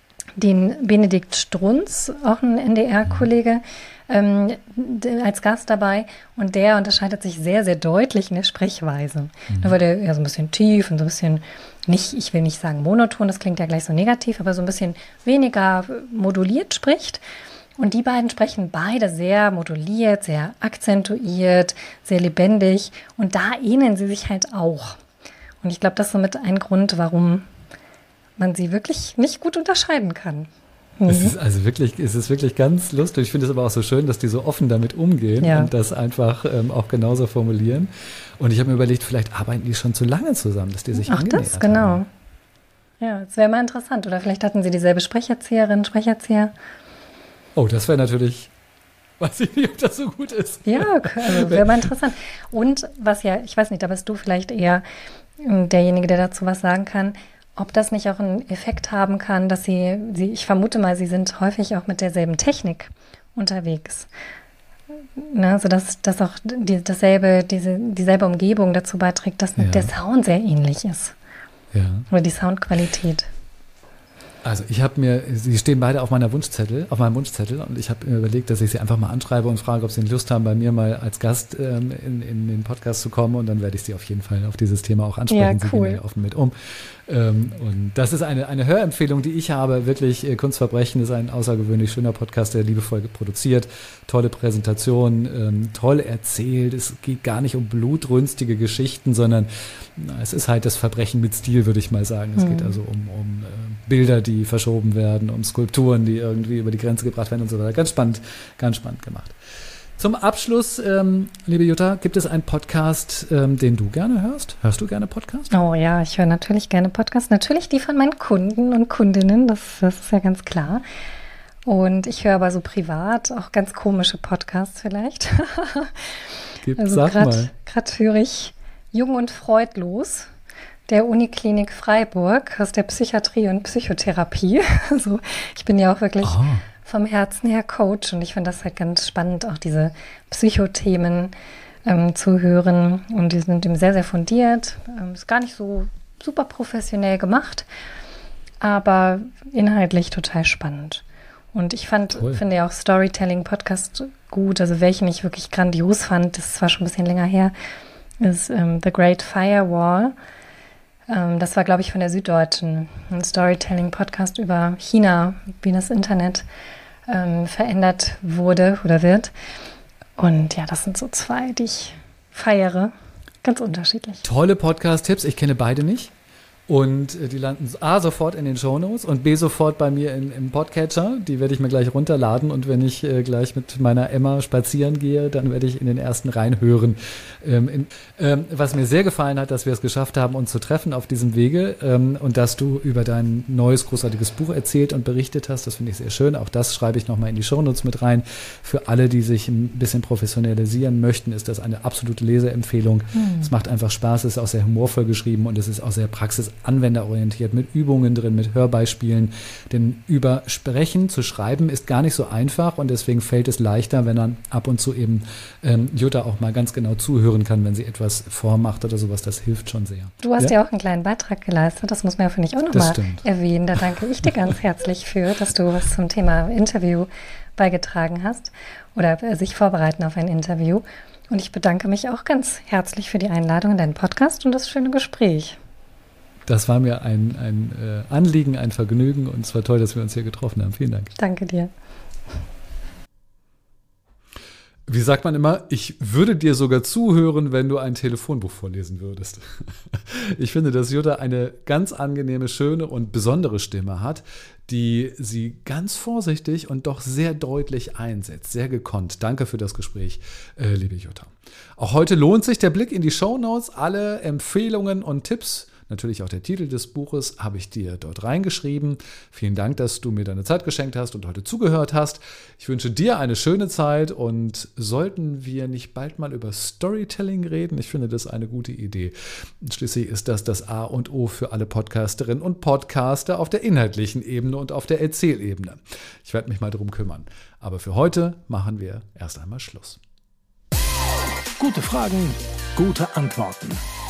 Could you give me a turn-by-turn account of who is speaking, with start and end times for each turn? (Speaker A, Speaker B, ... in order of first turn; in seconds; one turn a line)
Speaker A: 0.4-17.2
Speaker B: 9.5-9.8
Speaker A: 17.8-25.0
Speaker A: 25.6-27.4
Speaker A: 28.4-31.3
Speaker B: 31.1-42.0
Speaker A: 35.4-35.7
Speaker A: 41.0-42.1
Speaker A: 43.0-46.5
Speaker B: 47.5-48.5
Speaker B: 49.2-51.9
Speaker A: 50.6-54.8
Speaker A: 55.4-64.1
Speaker A: 65.2-71.1
Speaker B: 69.6-69.9
Speaker B: 71.7-72.1
Speaker A: 72.1-73.3
Speaker B: 74.4-109.3
Speaker A: 85.3-86.0
Speaker A: 102.4-102.8
Speaker B: 110.0-115.5
Speaker A: 115.5-120.8
Speaker A: 121.7-126.1
Speaker B: 126.6-127.5
Speaker A: 126.8-130.3
Speaker A: 130.9-141.3
Speaker B: 136.2-136.6
Speaker A: 141.8-147.7
Speaker A: 148.6-157.5
Speaker B: 152.1-152.4
Speaker A: 158.2-160.1
Speaker A: 161.1-166.4
Speaker A: 167.1-169.3
Speaker A: 170.2-174.2
Speaker B: 174.2-176.1
Speaker B: 176.7-220.5
Speaker A: 203.2-203.5
Speaker A: 220.2-235.6
Speaker B: 222.7-223.2
Speaker B: 236.5-241.1
Speaker A: 241.2-241.7
Speaker B: 244.9-290.0
Speaker C: 291.6-293.8